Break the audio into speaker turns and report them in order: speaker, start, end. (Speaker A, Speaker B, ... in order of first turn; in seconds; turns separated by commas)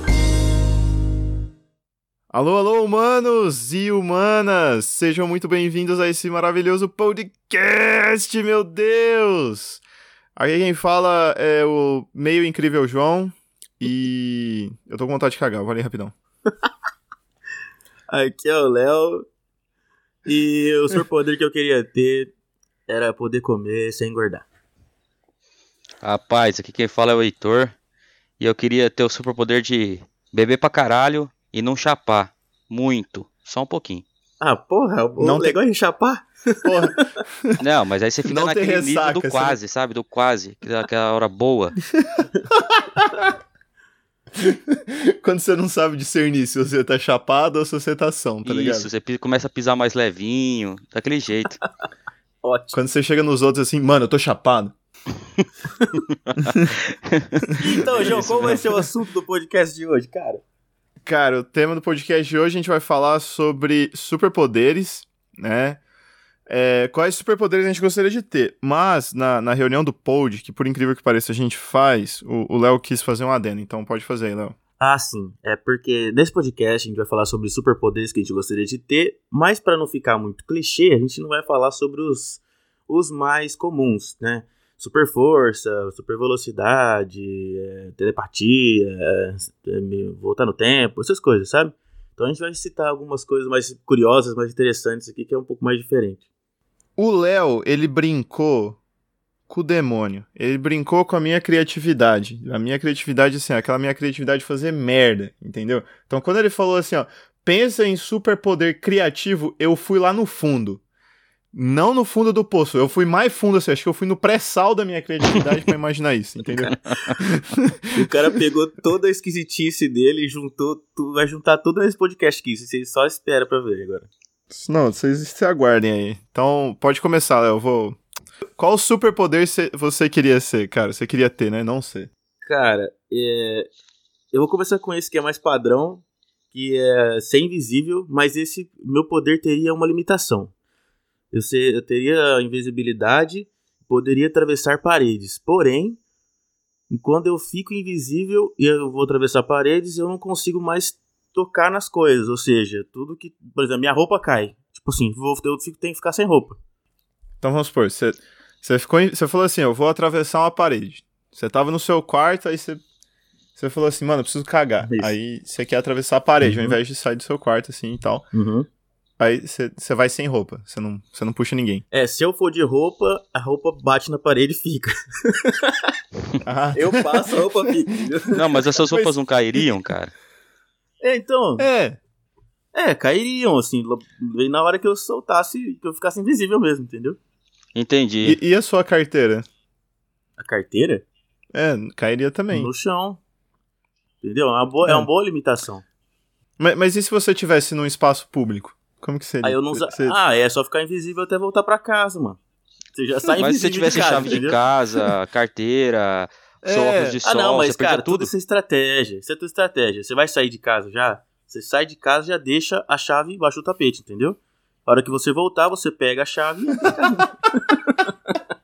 Speaker A: 2.3-9.8, Speaker A: 10.4-16.1, Speaker B: 18.1-19.3, Speaker B: 20.3-22.3, Speaker B: 22.9-24.4, Speaker C: 26.0-27.7, Speaker C: 28.4-34.0, Speaker B: 34.4-37.0, Speaker A: 35.2-35.6, Speaker A: 36.6-37.6, Speaker C: 37.6-41.8, Speaker A: 38.3-39.6, Speaker A: 42.0-43.3, Speaker A: 44.4-48.9, Speaker C: 48.5-51.6, Speaker B: 52.4-52.8, Speaker A: 52.7-54.8, Speaker C: 56.3-58.7, Speaker A: 56.4-56.7, Speaker A: 57.5-58.6, Speaker B: 57.6-60.4, Speaker A: 61.1-65.8, Speaker A: 66.5-74.6, Speaker B: 74.8-96.2, Speaker A: 97.0-98.8, Speaker A: 99.5-110.8, Speaker A: 111.5-118.0, Speaker B: 116.7-117.2, Speaker B: 118.0-124.1, Speaker A: 124.5-128.0, Speaker A: 128.6-132.1, Speaker B: 132.4-133.7, Speaker B: 134.3-140.5, Speaker B: 141.3-146.0, Speaker B: 146.9-156.6, Speaker A: 157.4-162.8, Speaker A: 163.6-168.3, Speaker B: 164.8-165.1, Speaker B: 166.4-166.8, Speaker B: 168.3-168.7, Speaker A: 169.2-171.8, Speaker B: 171.9-176.0, Speaker A: 176.4-177.7, Speaker B: 176.7-178.6, Speaker A: 178.2-179.1, Speaker C: 178.4-180.1, Speaker B: 181.0-181.7, Speaker A: 181.6-182.0, Speaker B: 182.7-187.2, Speaker C: 187.8-188.4, Speaker A: 188.2-189.5, Speaker B: 190.4-191.1, Speaker A: 191.5-192.7, Speaker B: 192.5-193.2, Speaker B: 194.2-195.8, Speaker A: 196.6-200.2, Speaker B: 199.4-202.4, Speaker B: 202.9-204.6, Speaker C: 203.4-208.3, Speaker A: 206.6-207.2, Speaker B: 207.2-218.1